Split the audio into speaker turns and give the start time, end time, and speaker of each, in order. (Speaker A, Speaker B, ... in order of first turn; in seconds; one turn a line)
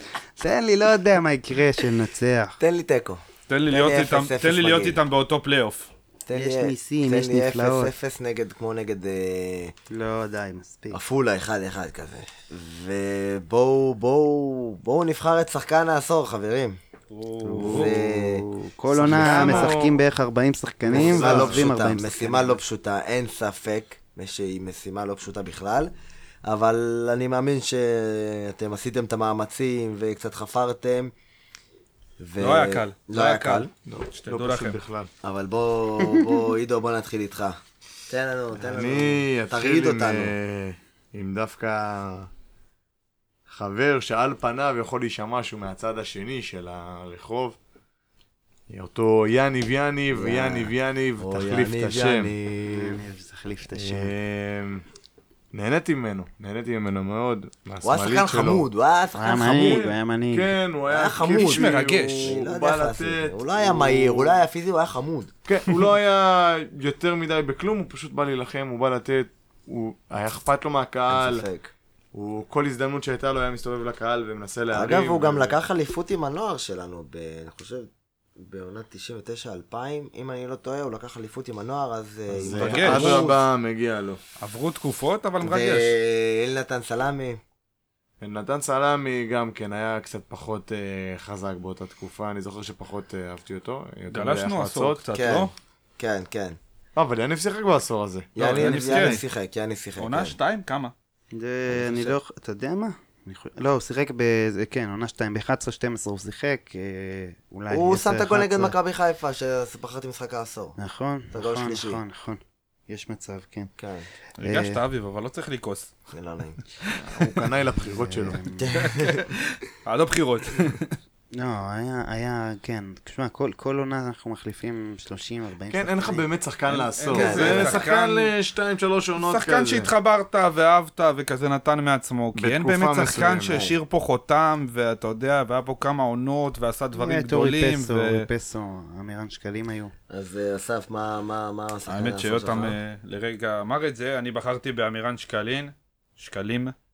Speaker A: 0.4-2.6
Speaker B: 2.6-5.0
Speaker C: 3.5-5.9
Speaker B: 6.3-9.7
Speaker A: 6.3-7.9
Speaker A: 9.9-11.0
Speaker B: 10.9-16.8
Speaker C: 17.1-17.9
Speaker A: 17.4-22.6
Speaker B: 17.6-18.4
Speaker D: 18.9-20.0
Speaker C: 19.1-19.5
Speaker B: 19.2-19.7
Speaker D: 20.9-21.7
Speaker B: 20.9-25.9
Speaker B: 26.4-31.1
Speaker B: 32.2-33.7
Speaker C: 32.4-34.8
Speaker D: 33.9-35.1
Speaker B: 35.2-40.3
Speaker D: 38.6-42.3
Speaker D: 43.5-47.6
Speaker D: 48.7-52.3
Speaker B: 50.1-53.0
Speaker A: 52.7-54.1
Speaker D: 53.7-54.8
Speaker D: 55.5-58.7
Speaker B: 57.8-59.9
Speaker A: 59.1-60.5
Speaker D: 59.3-64.4
Speaker B: 60.9-65.3
Speaker C: 61.3-62.4
Speaker D: 65.5-71.5
Speaker B: 71.1-71.7
Speaker D: 72.1-75.6
Speaker B: 74.7-83.4
Speaker D: 82.3-84.2
Speaker C: 82.6-83.3
Speaker C: 84.4-86.0
Speaker B: 85.4-87.4
Speaker D: 88.2-95.0
Speaker C: 94.1-95.5
Speaker B: 95.1-96.6
Speaker D: 97.0-99.2
Speaker B: 98.4-100.4
Speaker C: 98.4-99.2
Speaker C: 100.0-100.9
Speaker A: 101.3-108.8
Speaker B: 101.7-102.2
Speaker B: 107.7-110.8
Speaker A: 110.8-113.7
Speaker B: 111.3-112.0
Speaker B: 113.8-114.1
Speaker C: 114.4-115.9
Speaker A: 114.4-114.8
Speaker B: 116.1-116.6
Speaker D: 117.0-118.4
Speaker A: 117.8-118.7
Speaker B: 118.6-119.3
Speaker C: 118.7-121.0
Speaker A: 121.3-126.2
Speaker D: 125.7-129.9
Speaker C: 126.7-128.3
Speaker B: 127.1-127.8
Speaker C: 129.2-138.3
Speaker D: 132.3-133.7
Speaker B: 133.5-133.8
Speaker A: 137.0-139.9
Speaker B: 140.1-142.8
Speaker C: 141.9-146.7